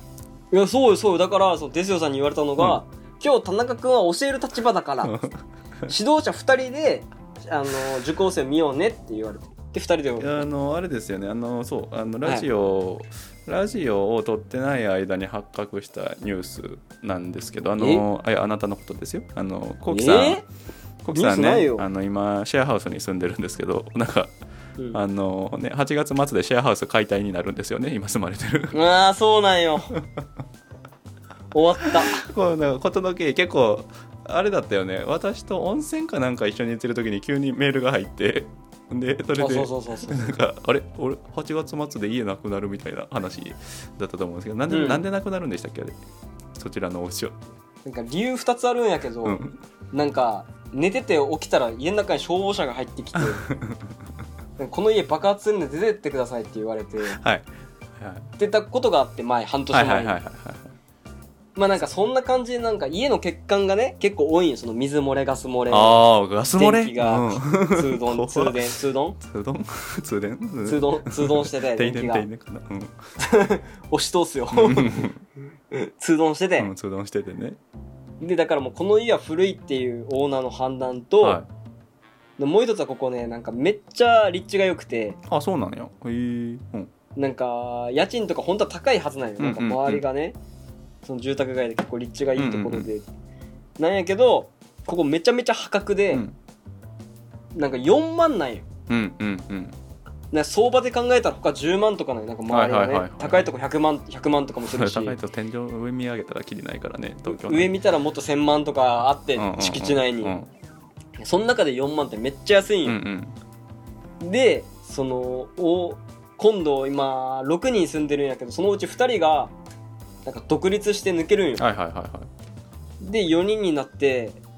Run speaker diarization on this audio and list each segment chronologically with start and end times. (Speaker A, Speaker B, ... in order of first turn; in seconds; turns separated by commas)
Speaker A: 0.5-5.2, Speaker B: 5.0-5.9, Speaker A: 5.9-10.5, Speaker B: 10.2-20.4, Speaker A: 12.2-12.5, Speaker A: 17.8-18.0, Speaker A: 19.9-20.4, Speaker B: 21.0-24.3, Speaker A: 21.1-21.9, Speaker B: 24.9-28.8, Speaker A: 28.7-29.9, Speaker A: 31.5-32.3, Speaker B: 31.9-45.9, Speaker A: 39.4-40.4, Speaker A: 44.7-45.0, Speaker B: 46.6-47.4, Speaker A: 47.8-49.4, Speaker B: 49.2-49.6, Speaker A: 49.9-53.4, Speaker B: 53.2-53.9, Speaker A: 54.6-57.2, Speaker B: 57.1-57.5, Speaker B: 58.0-58.3, Speaker A: 58.4-60.2, Speaker B: 59.7-60.7, Speaker A: 61.5-69.2, Speaker B: 65.7-68.7, Speaker B: 69.2-72.9, Speaker A: 70.6-72.3, Speaker A: 73.2-75.1, Speaker B: 74.5-75.2, Speaker A: 75.7-76.7, Speaker B: 76.6-77.6, Speaker A: 78.2-81.4, Speaker B: 81.2-81.5, Speaker A: 82.4-85.2, Speaker B: 85.3-86.9, Speaker A: 87.2-90.4, Speaker B: 89.4-90.0, Speaker A: 91.0-93.0, Speaker B: 92.4-92.9, Speaker A: 93.8-96.2, Speaker B: 96.1-96.4, Speaker A: 97.5-98.7, Speaker B: 98.9-99.8, Speaker A: 100.3-105.2, Speaker B: 102.5-103.5, Speaker B: 104.6-107.7, Speaker A: 107.3-110.3, Speaker B: 109.4-110.5, Speaker A: 111.2-113.0, Speaker B: 112.8-113.3, Speaker A: 114.2-119.5, Speaker A: 120.2-121.7, Speaker B: 121.6-122.3, Speaker A: 123.0-124.4